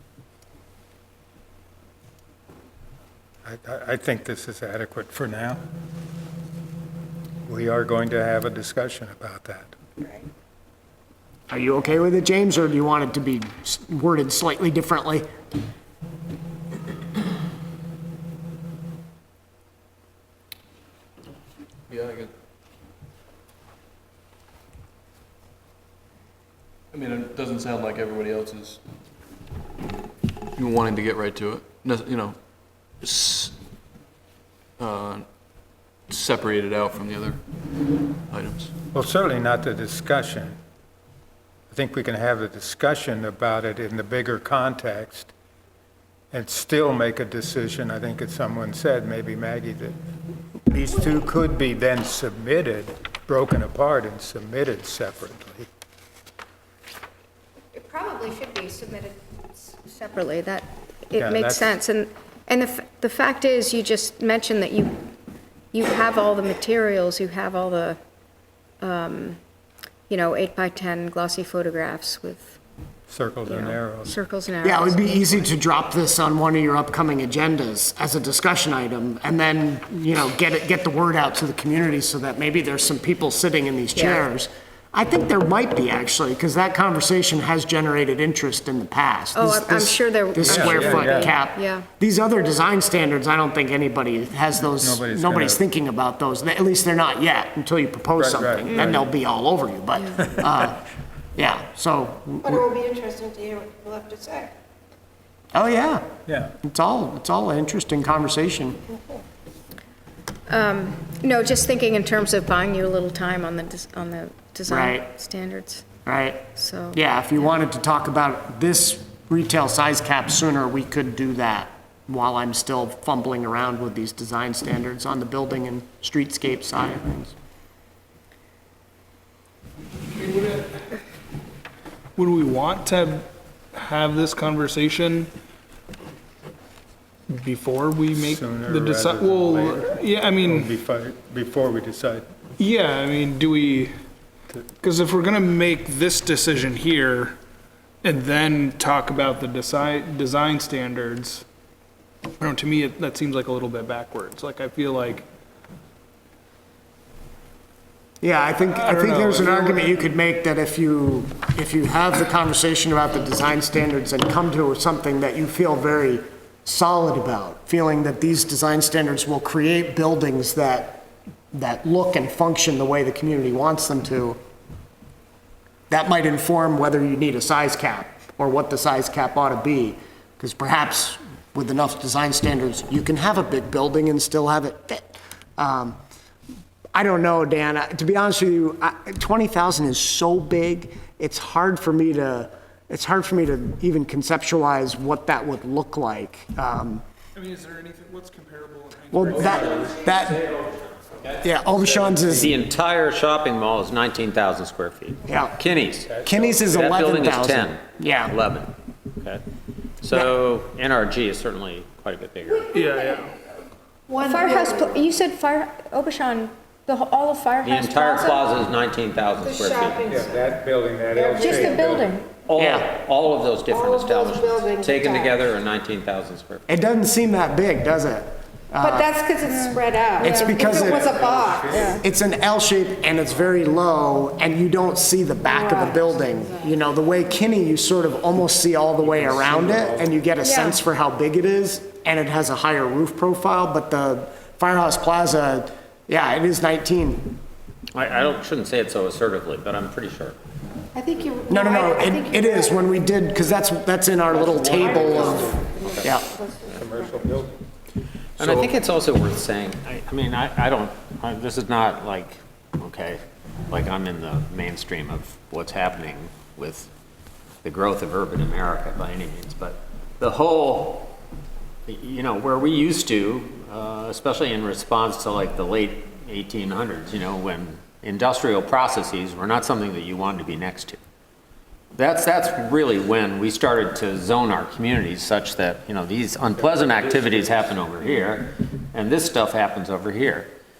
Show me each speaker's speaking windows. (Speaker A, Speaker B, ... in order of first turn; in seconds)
Speaker A: 3.5-5.6, 7.5-9.7, 38.9-40.6, 41.7-45.3, 46.3-50.0, 50.7-55.7, 61.2-61.8, 73.1-74.2, 90.4-91.3, 94.8-95.6, 98.2-99.1, 106.3-106.5, 138.2-142.3, 206.1-206.8, 220.1-222.2, 230.6-232.0, 239.0-240.1, 254.8-257.6
Speaker B: 11.5-15.3, 74.6-100.8, 101.4-102.7, 105.5-106.1, 106.6-108.8, 114.7-115.1, 116.0-127.3, 158.2-174.4, 175.9-186.0, 186.9-197.0, 199.1-200.5, 201.4-202.5, 205.3-205.6, 206.2-208.4, 222.6-222.9, 226.7-229.1, 230.2-231.1, 232.0-247.4, 251.5-255.5, 256.0-256.3
Speaker C: 21.9-22.3, 26.9-28.8, 30.6-33.5, 34.8-35.3, 36.1-37.4, 38.3-38.7
Speaker D: 57.8-65.0, 65.7-68.0, 68.8-69.4, 70.1-72.6, 73.5-75.5, 84.0-84.3, 89.3-91.9, 99.9-100.2, 110.5-115.9, 116.5-117.5, 214.2-218.4, 221.3-222.3, 229.1-232.0, 235.5-235.9, 240.4-240.8, 254.5-255.2
Speaker E: 102.5-104.5, 214.1-214.8, 219.4-220.4, 221.2-221.7, 223.7-225.3, 228.9-230.8, 251.2-251.8
Speaker F: 130.1-130.8, 132.2-135.3, 137.3-140.7, 142.6-143.9, 144.8-147.3, 148.0-151.4, 152.4-155.3, 158.7-159.8, 197.4-199.9, 212.7-213.4
Speaker G: 202.2-206.1, 206.7-209.4, 210.0-212.8, 217.6-220.1, 222.4-226.6, 247.9-250.4, 254.5-255.5, 258.4-266.9, 267.6-271.2, 271.9-281.0, 281.9-290.5